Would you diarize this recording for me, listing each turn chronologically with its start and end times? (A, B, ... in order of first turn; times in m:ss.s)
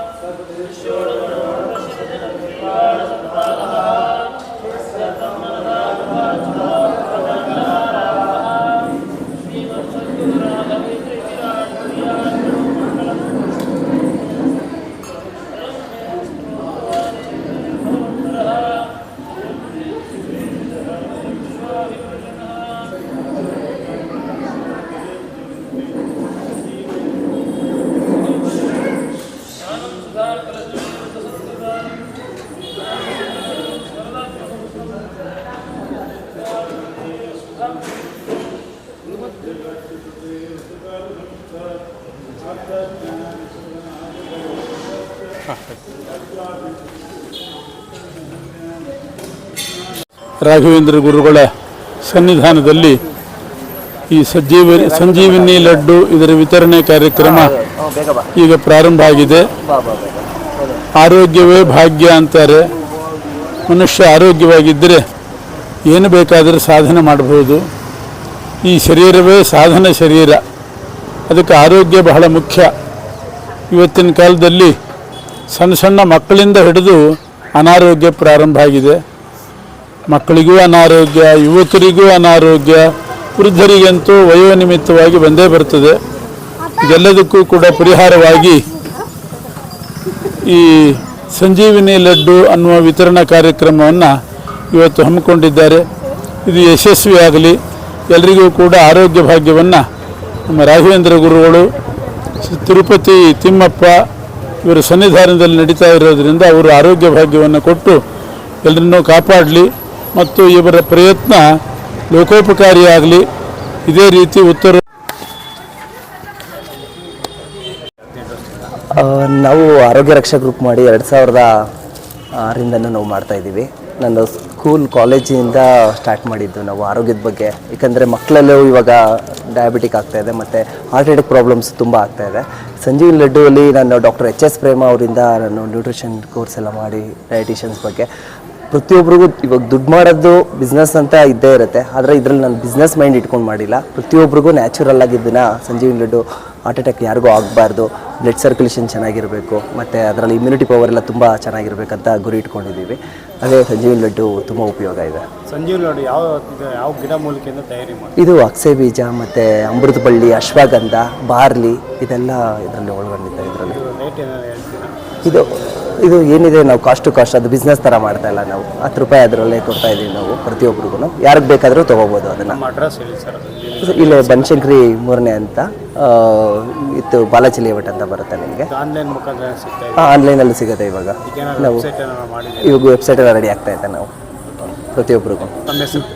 0:50.4-0:51.5 A
0:52.0-0:53.0 A
0:54.1-0:57.5 A
0:54.8-0:55.8 B
0:57.2-0:58.3 B
0:58.4-0:59.5 A
0:59.6-1:00.8 B
1:01.0-1:02.6 A
1:03.7-1:05.0 A
1:05.8-1:07.6 A
1:08.6-1:10.4 A
1:11.3-1:12.7 A
1:13.7-1:14.7 A
1:15.5-1:17.0 A
1:17.5-1:19.0 A
1:20.1-1:22.8 A
1:23.4-1:26.0 A
1:26.8-1:28.6 A
1:30.4-1:34.1 A
1:34.7-1:35.8 A
1:36.4-1:37.6 A
1:38.1-1:39.8 A
1:40.5-1:41.7 A
1:42.4-1:43.9 A
1:44.6-1:48.0 A
1:48.6-1:51.4 A
1:52.1-1:53.2 A
1:53.9-1:54.8 A
1:58.2-1:58.6 C
1:59.0-2:01.5 B
2:02.4-2:18.1 B
2:18.7-2:35.2 B
2:35.5-2:38.1 C
2:38.2-2:43.8 B
2:43.7-2:44.9 C
2:45.2-2:52.6 B
2:52.5-2:54.6 C
2:53.8-2:58.7 B
2:58.8-3:00.0 C
3:00.0-3:01.8 B
3:01.3-3:02.7 C
3:02.6-3:04.1 B
3:04.8-3:05.5 B
3:05.7-3:06.0 C